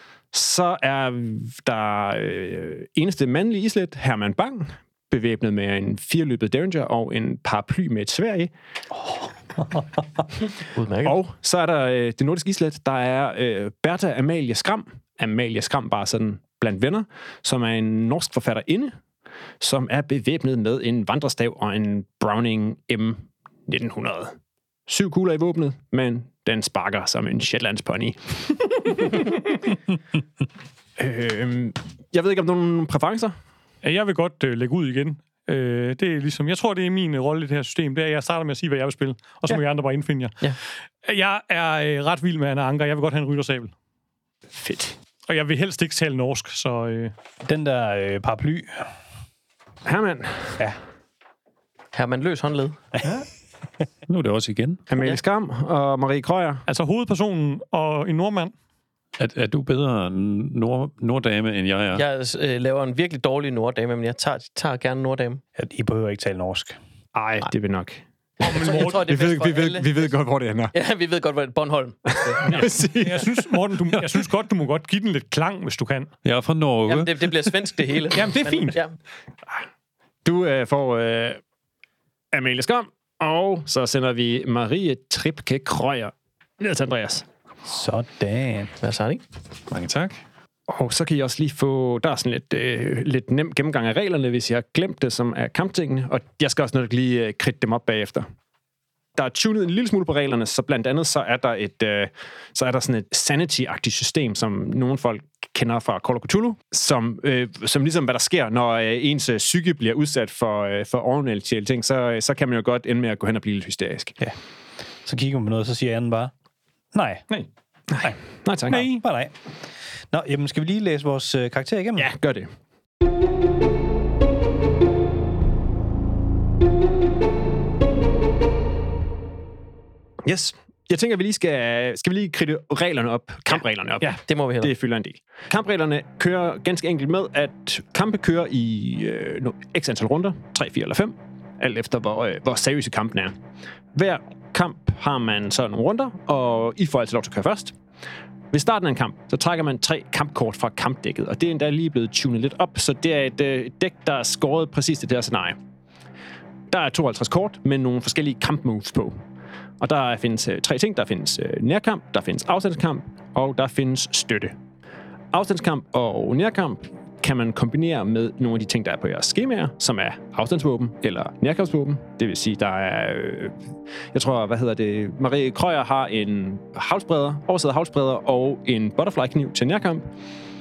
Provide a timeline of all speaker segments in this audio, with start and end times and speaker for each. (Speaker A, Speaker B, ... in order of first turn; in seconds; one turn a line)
Speaker A: 0.3-8.5
Speaker B: 10.7-11.2
Speaker A: 11.0-18.9
Speaker A: 19.6-24.4
Speaker A: 24.9-29.0
Speaker C: 29.0-29.2
Speaker A: 31.0-33.3
Speaker C: 33.8-40.4
Speaker C: 41.0-43.7
Speaker A: 44.5-45.0
Speaker C: 45.3-47.1
Speaker D: 47.4-48.9
Speaker A: 49.8-50.6
Speaker B: 51.9-52.8
Speaker E: 54.1-54.8
Speaker A: 54.9-56.6
Speaker C: 56.7-58.5
Speaker E: 59.2-62.0
Speaker B: 61.9-65.4
Speaker D: 65.6-66.8
Speaker A: 67.1-68.0
Speaker C: 68.4-69.0
Speaker B: 68.5-69.8
Speaker A: 68.9-70.7
Speaker B: 70.7-72.6
Speaker A: 72.1-73.4
Speaker C: 72.4-76.1
Speaker E: 76.2-77.9
Speaker B: 76.8-79.0
Speaker C: 78.1-78.8
Speaker A: 80.2-81.4
Speaker A: 82.3-87.2
Speaker D: 87.7-88.7
Speaker B: 88.8-89.2
Speaker E: 89.7-90.2
Speaker A: 90.7-98.2
Speaker A: 99.1-114.2
Speaker D: 115.0-116.3
Speaker D: 116.9-117.2
Speaker A: 117.9-118.8
Speaker D: 118.7-119.3
Speaker D: 120.1-122.1
Speaker A: 122.0-122.5
Speaker A: 130.2-143.3
Speaker B: 134.1-134.7
Speaker A: 143.9-147.7
Speaker A: 148.5-155.6
Speaker A: 156.7-159.2
Speaker A: 159.8-164.5
Speaker A: 165.3-173.5
Speaker A: 174.1-180.1